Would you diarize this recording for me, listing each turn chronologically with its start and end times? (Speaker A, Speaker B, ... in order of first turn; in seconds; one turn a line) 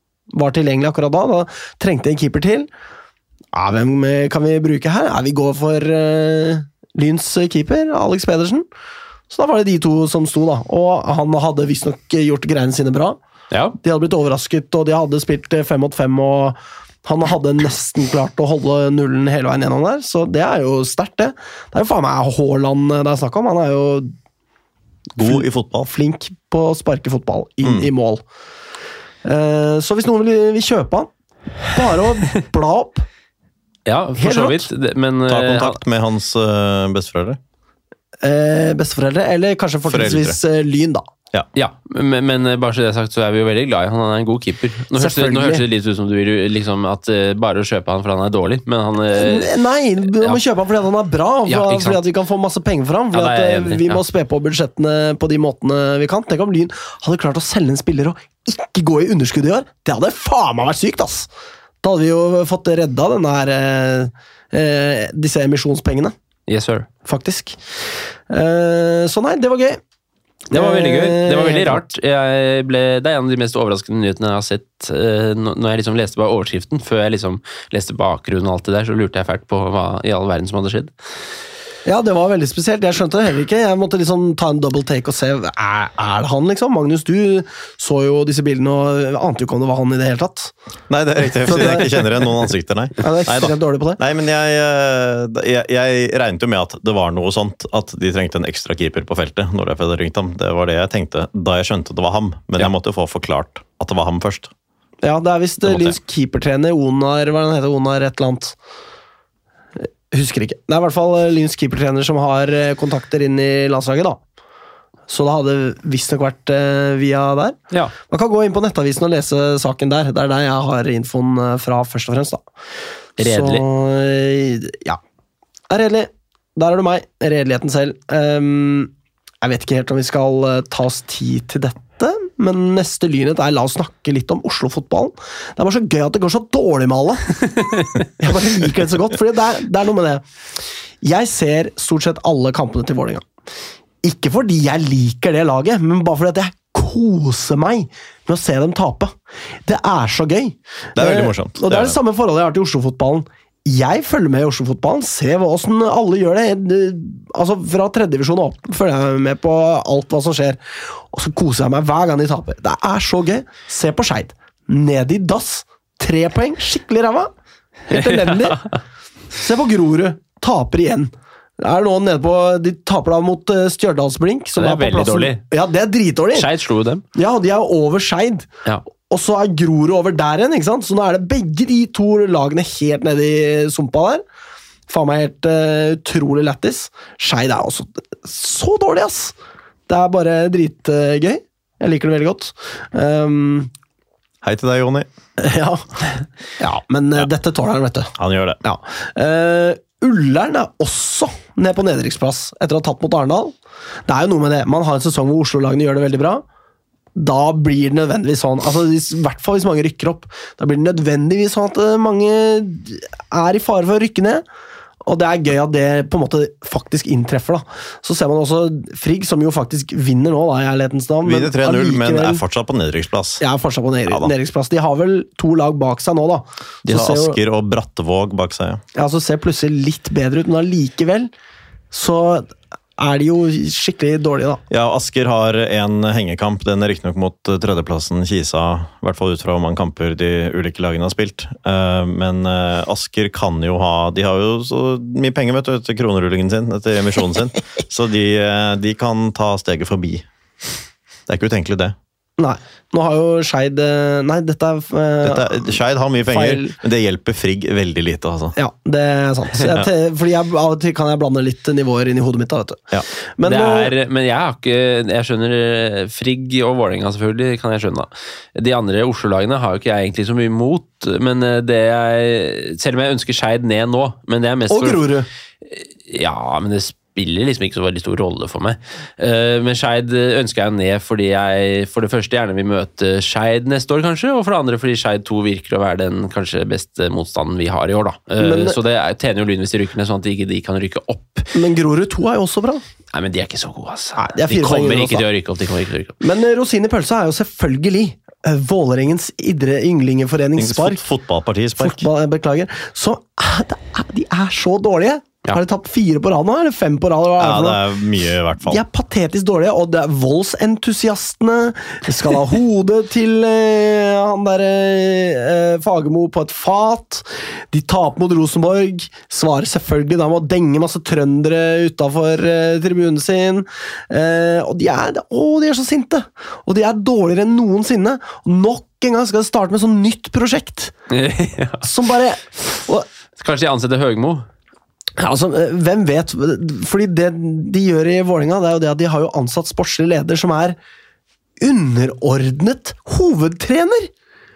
Speaker A: 0.3-2.7
Speaker A: 3.5-8.7
Speaker A: 9.3-13.2
Speaker B: 13.5-13.8
Speaker A: 13.8-24.1
Speaker C: 25.2-25.9
Speaker A: 25.2-28.2
Speaker C: 27.6-27.9
Speaker A: 29.2-31.1
Speaker A: 31.6-33.0
Speaker B: 33.9-35.8
Speaker A: 34.2-34.7
Speaker C: 35.3-37.4
Speaker A: 38.2-41.0
Speaker C: 39.9-40.4
Speaker B: 41.5-49.5
Speaker A: 44.9-45.6
Speaker A: 49.1-61.3
Speaker B: 50.1-50.4
Speaker B: 51.5-52.0
Speaker B: 53.1-54.0
Speaker A: 61.8-66.1
Speaker B: 66.5-66.9
Speaker A: 67.0-67.6
Speaker A: 68.3-69.8
Speaker A: 70.5-71.8
Speaker B: 70.5-80.9
Speaker A: 81.8-90.5
Speaker C: 90.9-104.5
Speaker A: 91.4-92.0
Speaker A: 93.0-94.0
Speaker A: 105.0-108.5
Speaker C: 105.6-106.0
Speaker A: 109.8-114.2
Speaker A: 115.1-122.4
Speaker A: 123.2-125.0
Speaker B: 123.2-123.6
Speaker A: 125.7-137.5
Speaker A: 138.2-140.2
Speaker A: 141.0-143.2
Speaker A: 144.0-149.1
Speaker A: 149.7-167.3
Speaker C: 150.9-152.0
Speaker A: 167.9-168.6
Speaker B: 167.9-168.8
Speaker A: 169.3-176.5
Speaker B: 174.6-175.4
Speaker B: 176.3-177.0
Speaker A: 177.1-178.5
Speaker A: 179.1-184.2
Speaker A: 184.9-189.3
Speaker A: 189.9-193.7
Speaker C: 194.4-195.1
Speaker A: 195.4-196.0
Speaker A: 196.6-203.5
Speaker C: 198.2-198.6
Speaker A: 204.1-206.4
Speaker A: 207.2-214.4
Speaker A: 215.0-222.4
Speaker C: 221.2-223.4
Speaker A: 223.4-227.4
Speaker C: 224.1-224.3
Speaker C: 226.8-228.8
Speaker A: 228.9-231.3
Speaker A: 231.9-234.6
Speaker C: 234.7-250.2
Speaker C: 251.3-251.9
Speaker A: 252.4-256.8
Speaker C: 255.2-258.6
Speaker A: 258.5-263.9
Speaker B: 263.4-275.1
Speaker A: 274.7-275.3
Speaker B: 275.7-291.5
Speaker A: 288.4-288.8
Speaker A: 291.5-292.8
Speaker B: 293.1-296.2
Speaker A: 294.1-295.2
Speaker A: 296.2-301.0
Speaker C: 300.6-302.0
Speaker A: 301.8-307.8
Speaker C: 307.4-308.8
Speaker A: 308.6-330.9
Speaker B: 331.1-331.9
Speaker A: 331.8-333.1
Speaker B: 333.4-334.4
Speaker A: 335.2-340.8
Speaker A: 341.6-344.1